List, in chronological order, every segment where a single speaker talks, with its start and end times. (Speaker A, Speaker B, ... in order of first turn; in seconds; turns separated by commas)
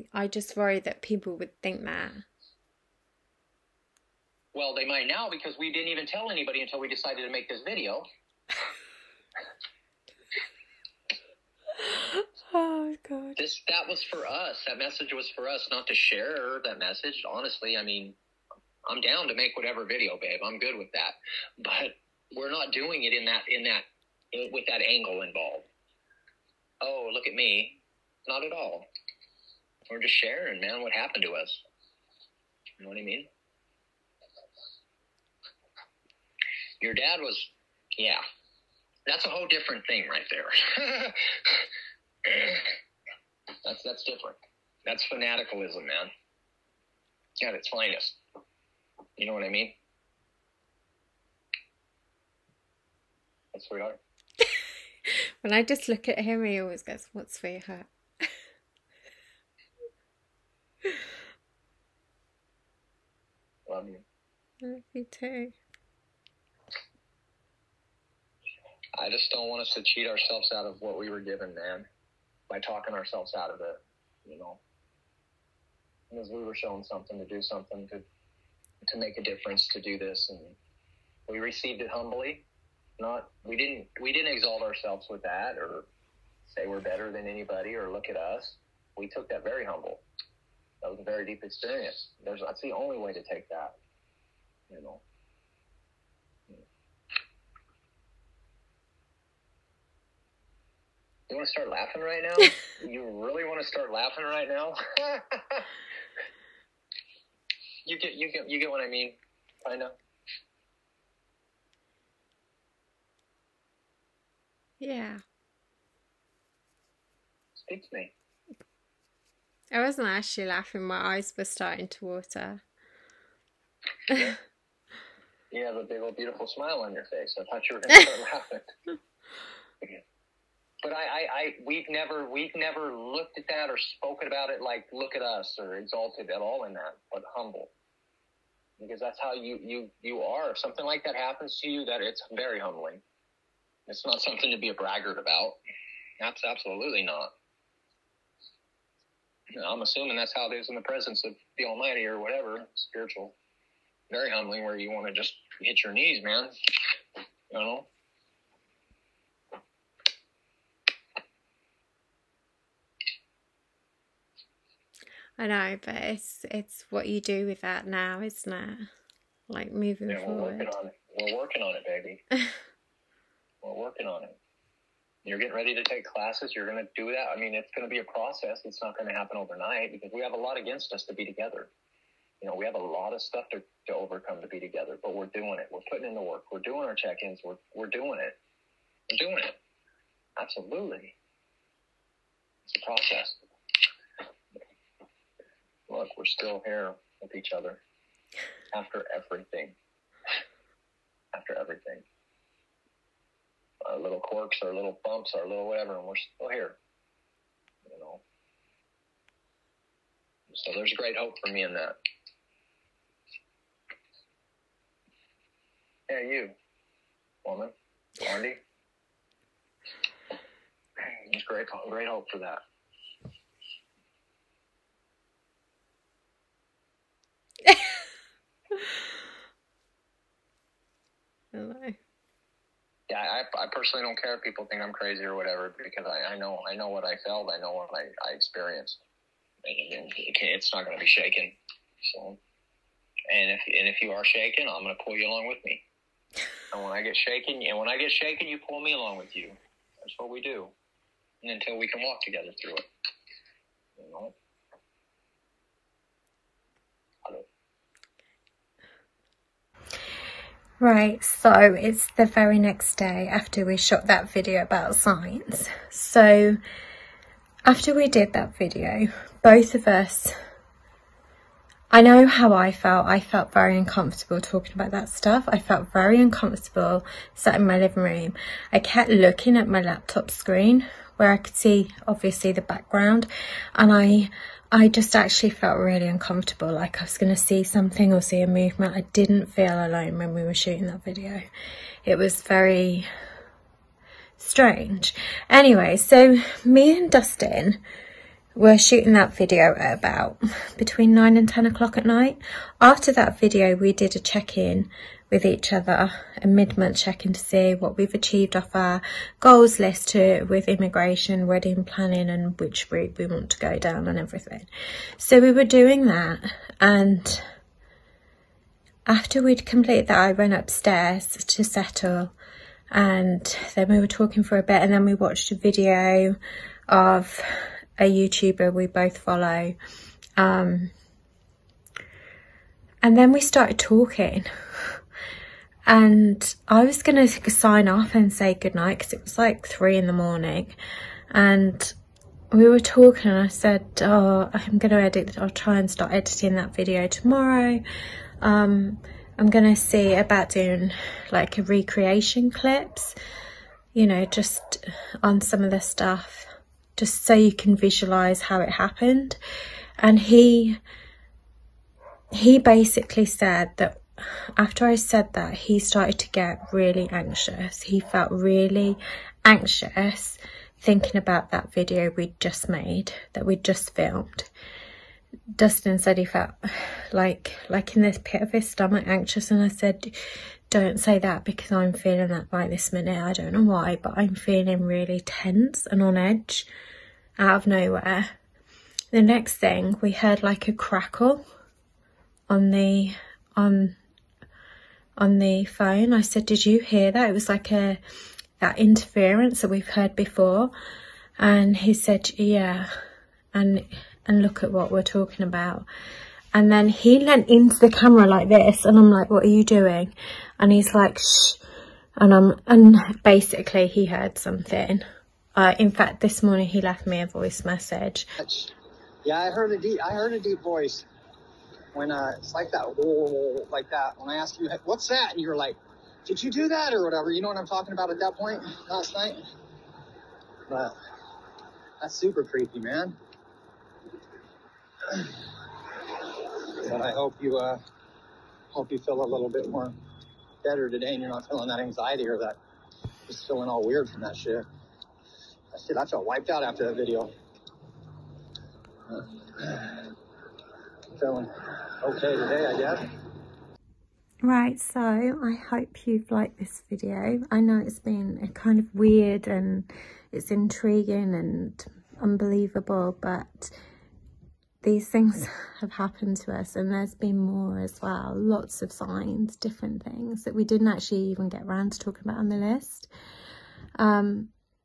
Speaker A: 0.1-2.2, Speaker B: 4.5-8.1, Speaker A: 11.8-13.4, Speaker B: 13.4-18.2, Speaker B: 18.9-25.7, Speaker B: 26.8-28.9, Speaker B: 29.9-31.6, Speaker B: 32.8-33.3, Speaker B: 36.8-38.2, Speaker B: 39.1-41.7, Speaker B: 42.2-42.7, Speaker B: 43.6-46.1, Speaker B: 47.4-48.2, Speaker B: 49.2-49.8, Speaker B: 53.5-54.0, Speaker A: 55.4-58.3, Speaker B: 63.7-64.0, Speaker A: 64.6-65.5, Speaker B: 69.0-71.9, Speaker B: 72.5-74.6, Speaker B: 76.1-78.0, Speaker B: 78.9-80.6, Speaker B: 81.3-82.5, Speaker B: 83.0-85.9, Speaker B: 86.5-90.0, Speaker B: 90.8-93.8, Speaker B: 94.7-95.0, Speaker B: 101.3-105.7, Speaker B: 107.8-110.0, Speaker A: 114.8-115.2, Speaker B: 117.6-118.1, Speaker A: 119.7-122.6, Speaker B: 125.5-128.7, Speaker B: 130.8-137.7, Speaker B: 138.8-143.0, Speaker B: 143.9-145.6, Speaker B: 146.2-147.3, Speaker B: 149.5-153.4, Speaker B: 154.1-156.5, Speaker B: 157.5-157.9, Speaker A: 165.4-168.9, Speaker A: 169.5-170.7, Speaker B: 170.1-172.2, Speaker B: 173.6-174.4, Speaker B: 175.2-181.7, Speaker B: 182.4-188.4, Speaker B: 189.1-189.6, Speaker B: 190.4-191.2, Speaker B: 192.7-193.4, Speaker B: 195.9-197.8, Speaker B: 198.7-199.8, Speaker B: 201.3-202.1, Speaker B: 203.8-206.8, Speaker B: 207.8-208.2, Speaker B: 210.5-212.0, Speaker B: 216.1-216.6, Speaker B: 217.4-218.6, Speaker B: 221.0-222.6, Speaker A: 231.5-232.0, Speaker B: 233.1-239.0, Speaker B: 239.6-242.4, Speaker B: 243.3-245.8, Speaker B: 246.7-250.7, Speaker B: 251.4-252.9, Speaker B: 254.0-254.3, Speaker A: 260.8-266.6, Speaker A: 267.6-270.4, Speaker A: 271.9-291.4, Speaker A: 292.1-293.1, Speaker A: 294.4-297.8, Speaker A: 298.6-317.5, Speaker A: 319.1-322.3, Speaker A: 322.9-326.4, Speaker A: 326.9-329.8, Speaker A: 330.4-330.9, Speaker A: 333.0-335.0, Speaker A: 335.9-340.8, Speaker A: 341.3-341.9, Speaker A: 342.5-347.8, Speaker A: 348.4-353.1, Speaker A: 353.9-359.4, Speaker A: 360.0-360.8, Speaker A: 362.3-374.5, Speaker A: 375.6-386.7, Speaker A: 387.4-388.3, Speaker A: 389.1-391.4, Speaker A: 392.5-394.0, Speaker A: 395.2-398.0, Speaker A: 398.6-400.7, Speaker A: 401.4-402.9, Speaker A: 403.5-405.9, Speaker A: 406.5-411.6, Speaker A: 412.2-418.3, Speaker C: 419.3-421.0, Speaker B: 419.5-420.9, Speaker B: 422.0-422.6, Speaker C: 422.0-425.8, Speaker B: 424.2-425.5, Speaker C: 426.3-429.3, Speaker B: 426.3-429.3, Speaker C: 432.0-432.8, Speaker B: 432.1-433.1, Speaker C: 436.9-437.8, Speaker B: 436.9-437.4, Speaker C: 438.8-439.9, Speaker B: 438.8-439.9, Speaker C: 440.6-442.6, Speaker B: 440.7-442.3, Speaker C: 443.3-444.6, Speaker B: 444.0-444.4, Speaker C: 445.8-447.3, Speaker C: 451.2-451.5, Speaker C: 452.1-453.0, Speaker A: 454.4-463.7, Speaker A: 464.8-473.1, Speaker A: 474.0-474.5